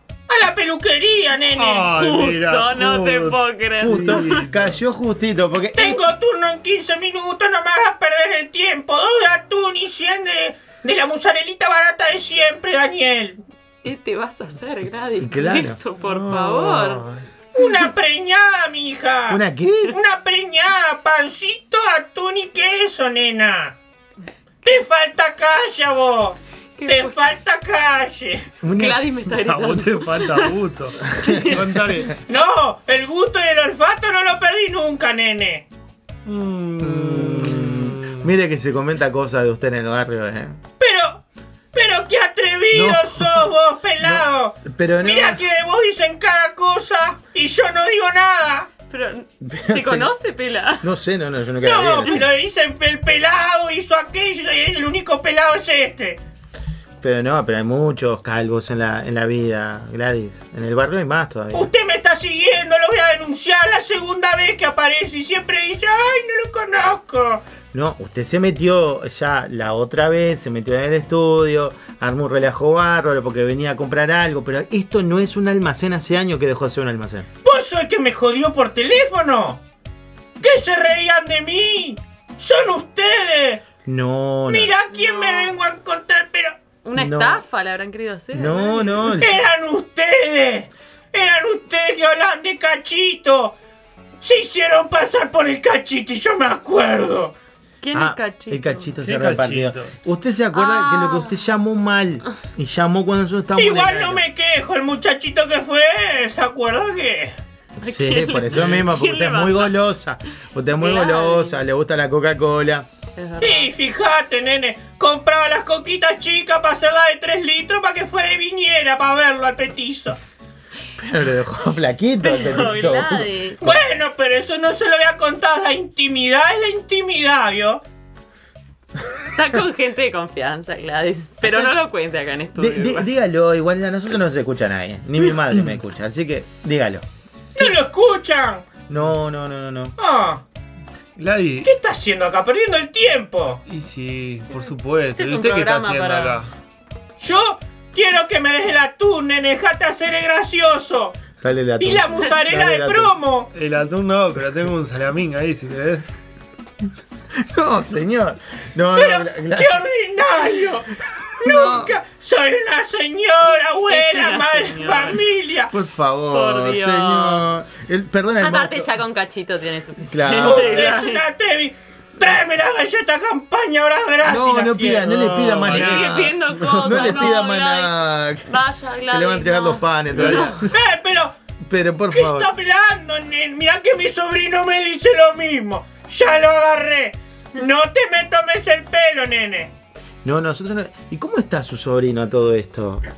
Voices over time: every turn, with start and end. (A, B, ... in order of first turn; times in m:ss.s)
0:00.3-0:02.0 A
0:01.5-0:04.8 B
0:01.9-0:04.4 C
0:03.8-0:06.0 D
0:05.7-0:13.4 A
0:13.8-0:17.0 C
0:15.2-0:15.8 D
0:16.0-0:17.2 B
0:17.5-0:23.8 A
0:19.3-0:20.0 D
0:24.6-0:28.5 A
0:26.8-0:27.2 C
0:28.6-0:29.1 D
0:28.7-0:30.5 C
0:29.3-0:32.2 B
0:31.1-0:31.6 C
0:32.3-0:35.7 A
0:36.2-0:38.3 B
0:36.8-0:40.6 D
0:40.8-0:41.2 A
0:41.7-0:48.7 A
0:42.7-0:43.5 D
0:44.0-0:45.4 D
0:48.9-0:50.9 C
0:49.4-0:50.1 D
0:50.8-0:52.3 D
0:51.6-0:56.2 A
0:57.0-1:01.7 D
1:01.5-1:07.4 A
1:07.7-1:17.3 D
1:17.4-1:19.6 A
1:20.4-1:23.6 A
1:23.8-1:24.7 D
1:24.5-1:26.6 A
1:24.9-1:25.5 C
1:26.8-1:29.1 C
1:26.9-1:27.4 D
1:28.3-1:29.5 D
1:29.2-1:33.6 A
1:34.2-1:37.3 A
1:37.8-1:38.9 C
1:37.9-1:44.2 D
1:39.0-1:39.9 B
1:40.5-1:41.4 C
1:43.6-1:47.3 A
1:47.8-1:52.9 D
1:47.8-1:49.8 C
1:50.8-1:51.6 C
1:53.2-1:53.7 C
1:53.4-2:00.2 A
2:01.0-2:03.7 D
2:02.2-2:03.6 C
2:03.6-2:07.8 A
2:09.3-2:13.1 C
2:11.4-2:11.7 D
2:12.5-2:17.0 D
2:17.6-2:18.7 A
2:18.9-2:20.0 D
2:20.0-2:20.4 A
2:21.2-2:21.7 B
2:21.6-2:23.6 A
2:23.7-2:26.5 B
2:25.2-2:26.4 C
2:27.2-2:31.2 A
2:31.4-2:33.2 D
2:31.8-2:33.5 A
2:33.5-2:36.1 B
2:37.3-2:39.9 D
2:38.9-2:45.7 A
2:41.2-2:41.9 D
2:43.9-2:45.2 C
2:45.7-2:48.9 D
2:46.3-2:47.5 C
2:48.4-2:51.2 C
2:50.0-2:50.9 D
2:50.4-2:55.2 A
2:54.2-3:00.7 D
2:55.0-2:57.3 B
2:55.6-3:00.5 C
3:00.1-3:00.6 B
3:00.6-3:01.4 A
3:01.6-3:02.5 D
3:02.1-3:09.7 A
3:10.2-3:13.0 D